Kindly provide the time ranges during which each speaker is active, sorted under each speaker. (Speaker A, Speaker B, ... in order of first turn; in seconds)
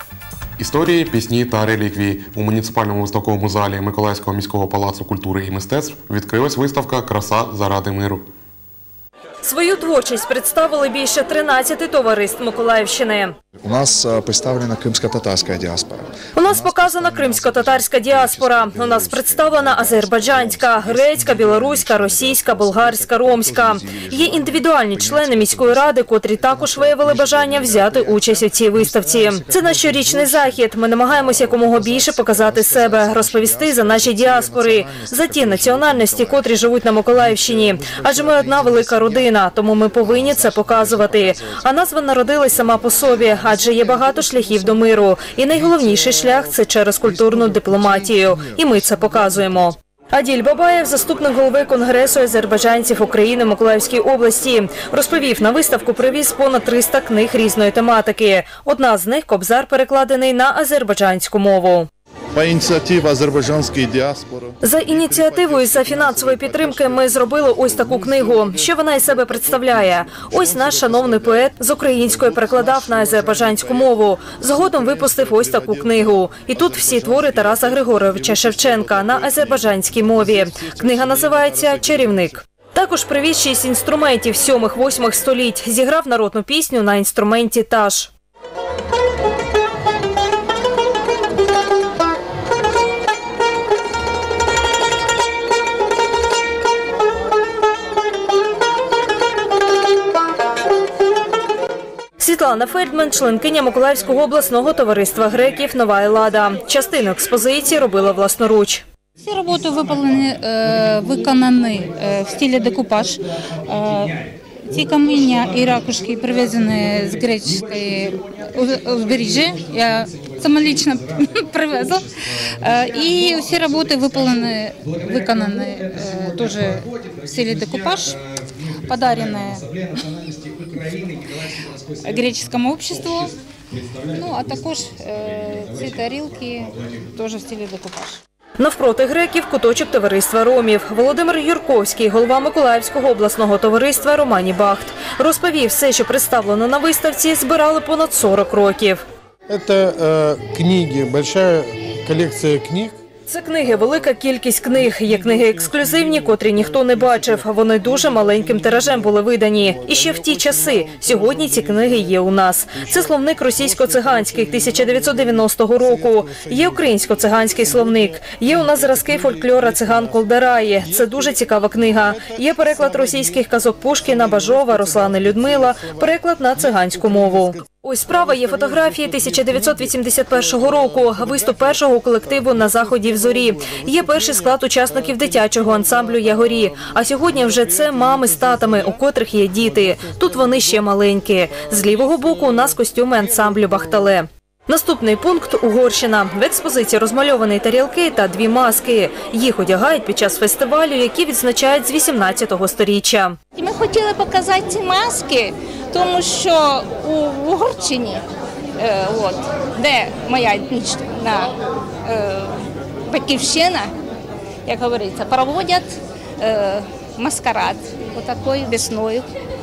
Speaker A: 0.6-8.3
Speaker B: 9.4-13.3, 16.3-61.9, 64.6-88.1, 102.2-108.8, 138.6-149.0, 153.3-203.4
Speaker C: 13.6-36.5, 37.9-39.1, 40.1-41.5, 48.6-49.1
Speaker D: 62.3-64.5, 65.9-67.0, 77.0-77.6, 78.2-79.1, 81.3-81.9
Speaker E: 109.2-122.1, 122.6-128.2, 128.8-129.7, 132.0-133.3, 134.1-138.2
Speaker F: 149.5-152.9, 155.0-156.5, 160.1-161.5, 164.7-164.9, 166.2-166.5, 168.9-169.9, 175.1-175.4
Speaker G: 203.5-208.2, 208.8-213.9, 214.7-219.3